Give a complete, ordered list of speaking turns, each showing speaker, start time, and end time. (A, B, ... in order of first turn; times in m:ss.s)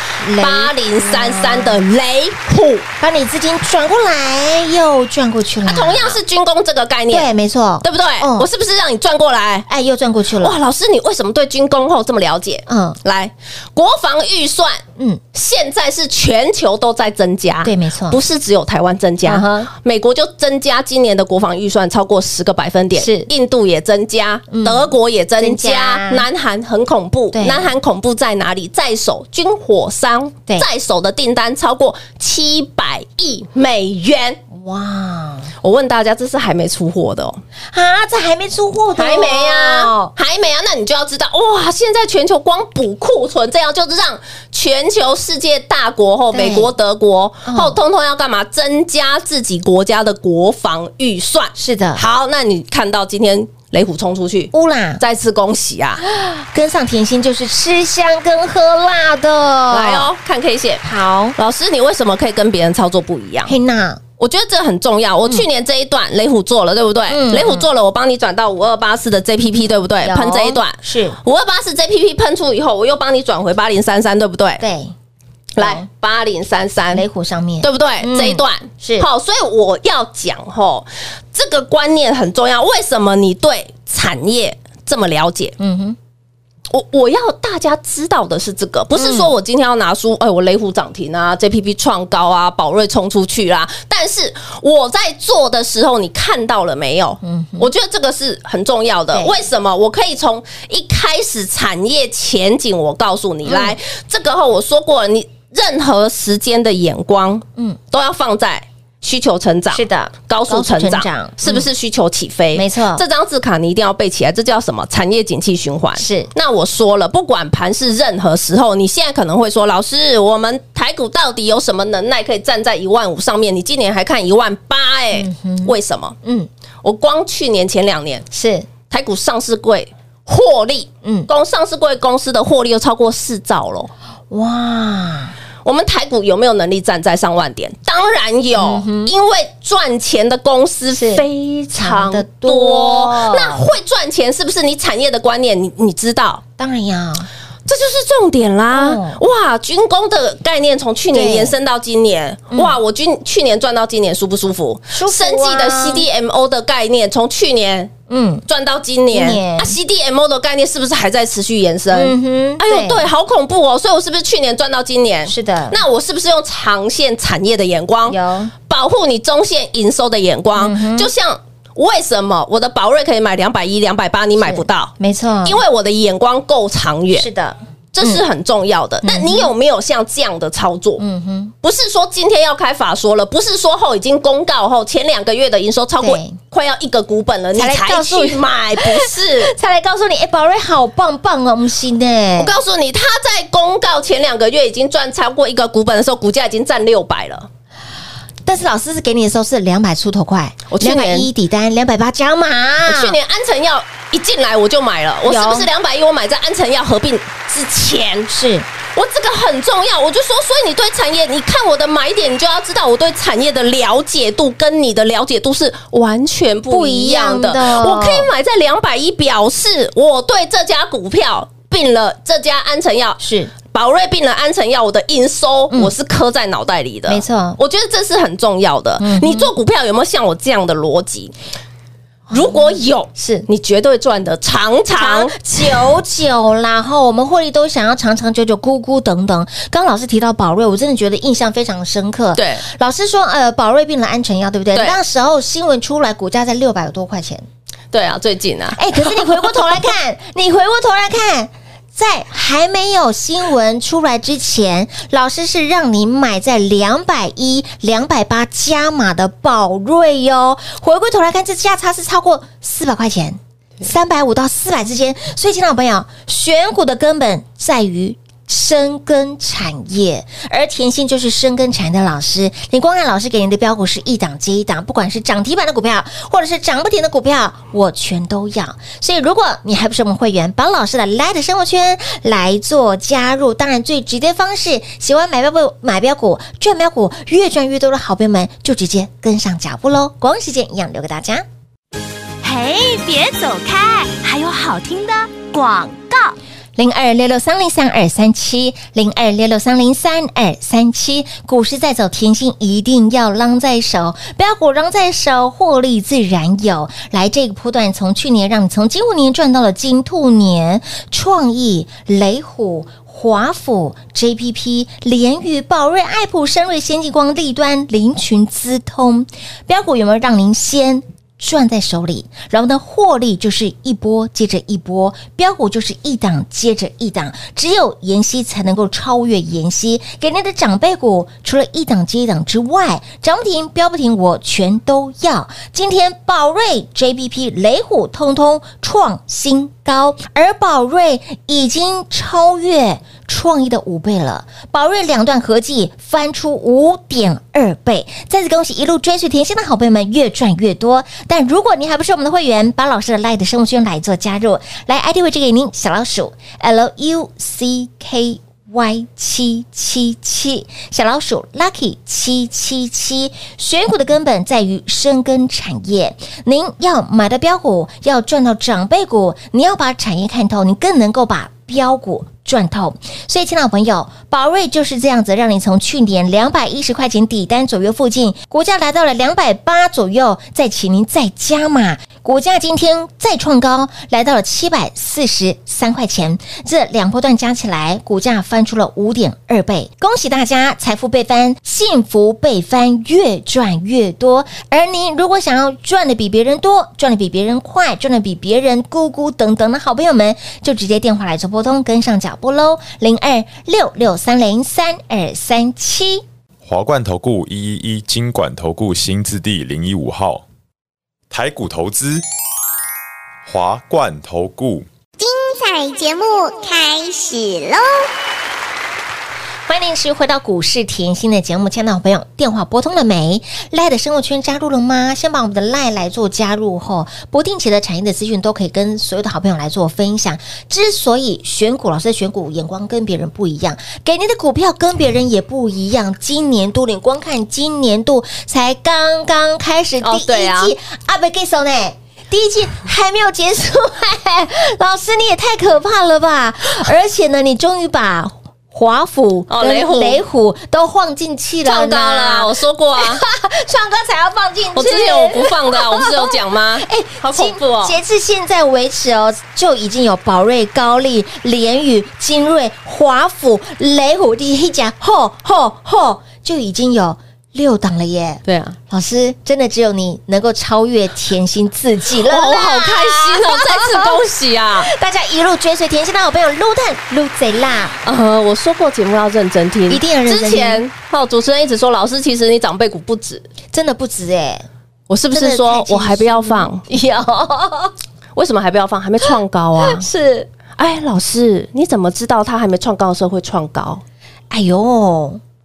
0:00.2-0:01.8 A
0:00.4-0:02.9 B
0:03.0-0:06.2 A
0:05.7-0:07.3 B
0:07.1-0:08.5 A
0:07.8-0:09.7 B
0:09.7-0:10.6 A
0:10.4-0:34.4 B
0:12.7-0:13.0 A
0:15.0-0:15.2 A
0:17.6-0:18.2 A
0:19.2-0:19.7 A
0:23.0-0:23.3 A
0:24.5-0:26.2 A
0:27.3-0:27.7 A
0:34.5-0:35.5 A
0:35.6-0:37.4 B
0:37.7-0:40.1 A
0:39.0-0:56.0 B
0:46.3-0:46.7 A
0:47.4-0:47.8 A
0:51.6-0:52.0 A
0:54.5-0:55.0 A
0:56.0-1:00.1 A
0:59.7-1:00.8 B
1:00.8-1:01.4 A
1:01.4-1:03.6 B
1:03.5-1:04.0 A
1:04.2-1:14.6 B
1:07.1-1:07.7 A
1:10.0-1:11.2 A
1:14.6-1:14.9 A
1:15.6-1:17.0 B
1:15.6-1:15.9 A
1:16.9-1:19.1 A
1:17.6-1:25.6 B
1:25.6-1:26.0 A
1:26.7-2:06.1 B
1:29.0-1:29.3 A
1:37.2-1:37.7 A
1:43.4-1:43.8 A
1:49.7-1:51.7 A
1:52.5-1:53.0 A
1:56.0-1:56.3 A
2:05.1-2:06.5 A
2:06.8-2:08.2 B
2:08.3-2:08.7 A
2:08.9-2:13.9 B
2:11.0-2:11.3 A
2:14.3-2:15.4 A
2:15.6-2:26.4 B
2:18.6-2:19.1 A
2:20.9-2:23.7 A
2:26.6-2:27.3 A
2:27.7-2:37.9 B
2:28.7-2:29.2 A
2:31.1-2:31.6 A
2:32.5-2:32.8 A
2:34.9-2:36.1 A
2:38.1-2:38.4 A
2:38.5-2:54.9 B
2:39.1-2:39.8 A
2:41.9-2:43.0 A
2:45.3-2:45.8 A
2:48.1-2:48.5 A
2:50.6-2:51.1 A
2:54.4-2:55.6 A
2:55.4-2:57.3 B
2:57.1-2:58.2 A
2:57.9-3:01.0 B
2:59.0-2:59.5 A
3:01.0-3:01.5 A
3:01.6-3:09.5 B
3:06.0-3:06.4 A
3:07.5-3:12.5 A
3:12.4-3:17.5 B
3:18.4-3:23.2 A
3:20.7-3:21.3 B
3:22.9-3:28.3 B
3:25.2-3:25.7 A
3:28.3-3:28.7 A
3:29.0-3:51.3 B
3:36.7-3:38.3 A
3:43.2-3:43.5 A
3:47.1-3:47.6 A
3:49.0-3:49.5 A
3:52.3-3:53.5 A
3:52.3-3:55.4 B
3:54.9-4:07.4 A
4:02.4-4:02.6 B
4:07.9-4:09.6 B
4:08.8-4:51.4 A
4:52.4-4:56.4 C
4:56.8-6:46.2 A
6:46.6-6:50.5 D
6:51.3-6:52.2 D
6:53.4-6:54.9 D
6:55.2-6:58.0 E
6:59.7-7:54.2 A
7:20.0-7:20.7 B
7:29.5-7:30.2 B
7:31.6-7:33.2 B
7:34.8-7:38.0 B
7:48.5-7:48.8 B
7:52.2-7:54.9 B
7:54.8-7:58.0 A
7:58.0-8:03.5 B
7:59.9-8:00.8 A
8:03.7-8:04.7 A
8:05.1-8:06.8 B
8:05.3-8:07.9 A
8:08.4-8:10.0 B
8:09.8-8:10.5 A
8:10.8-8:14.0 B
8:14.5-8:15.4 A